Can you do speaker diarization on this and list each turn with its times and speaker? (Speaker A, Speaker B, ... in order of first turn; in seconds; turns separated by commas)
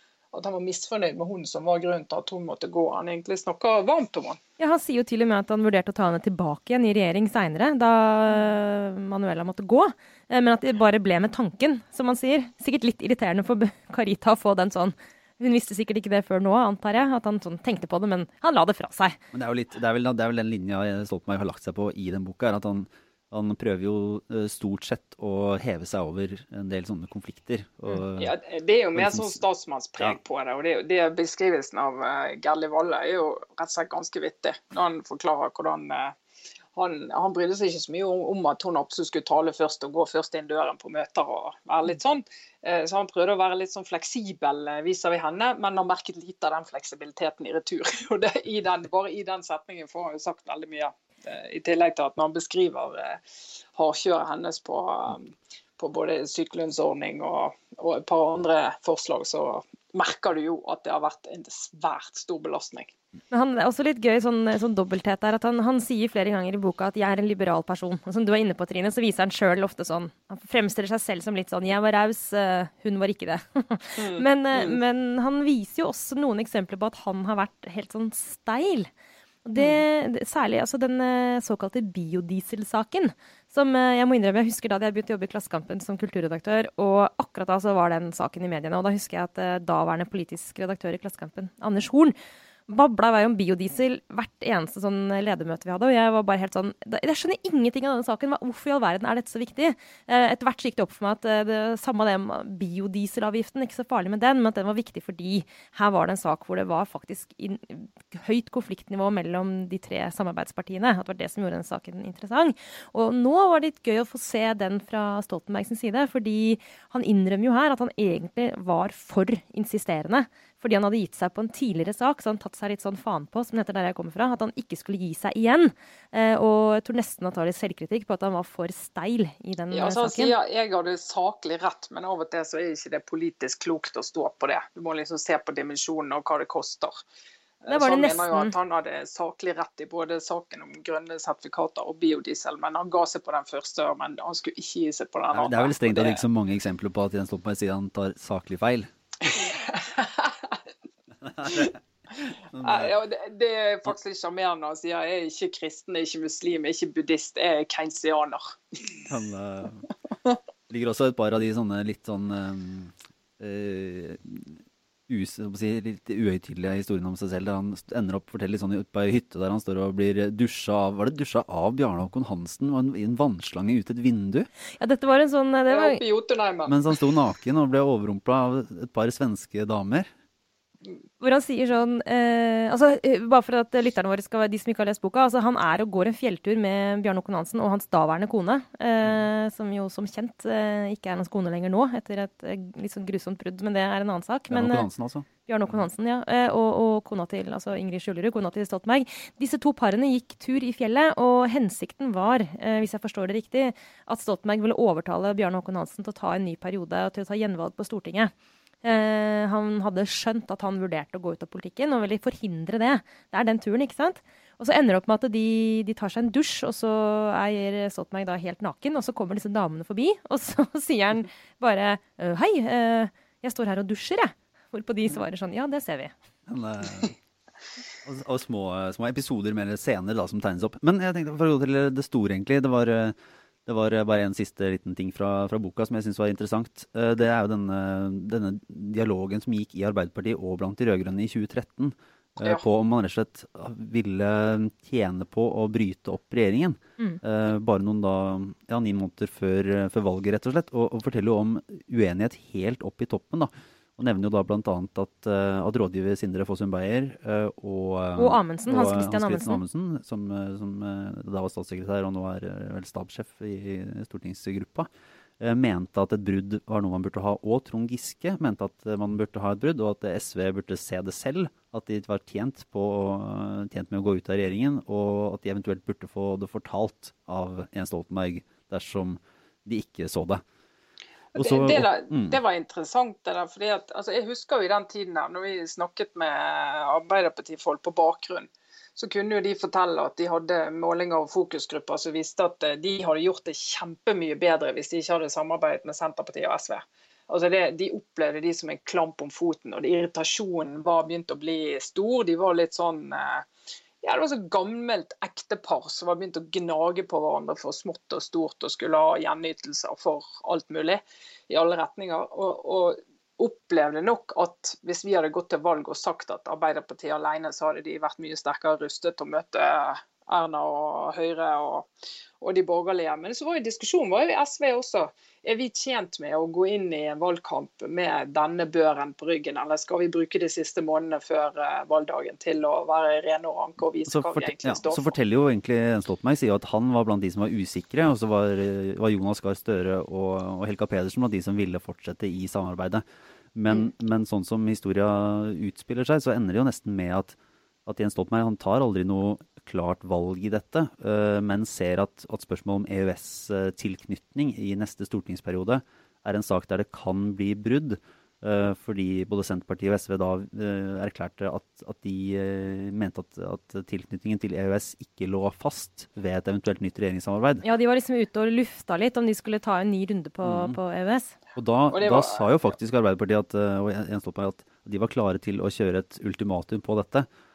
Speaker A: 0.3-4.4, Speaker B: 4.6-19.2, Speaker C: 19.3-28.4, Speaker A: 28.2-36.1, Speaker C: 28.9-29.4, Speaker A: 36.8-53.2, Speaker A: 53.7-62.9, Speaker B: 63.3-78.9, Speaker A: 74.0-74.8, Speaker B: 79.5-92.2, Speaker A: 79.6-79.8, Speaker B: 92.7-130.3, Speaker A: 129.7-137.0, Speaker A: 137.6-146.2, Speaker B: 137.7-138.5, Speaker C: 145.3-148.9, Speaker A: 149.3-150.6, Speaker C: 151.2-152.9, Speaker A: 152.6-159.1, Speaker C: 159.1-159.9, Speaker C: 160.7-174.5, Speaker B: 174.8-176.0, Speaker A: 175.7-177.0, Speaker C: 176.7-180.1, Speaker B: 181.2-194.9, Speaker C: 194.5-195.3, Speaker B: 195.5-208.3, Speaker B: 208.8-226.1, Speaker C: 226.5-227.2, Speaker C: 228.0-264.9, Speaker B: 258.2-259.6, Speaker C: 265.4-280.4, Speaker C: 281.4-282.4, Speaker A: 281.4-303.5, Speaker A: 304.0-321.9, Speaker A: 322.4-335.1, Speaker C: 334.1-343.0, Speaker C: 343.6-367.6, Speaker B: 367.6-371.4, Speaker C: 370.4-370.8, Speaker C: 371.6-377.3, Speaker A: 371.9-372.5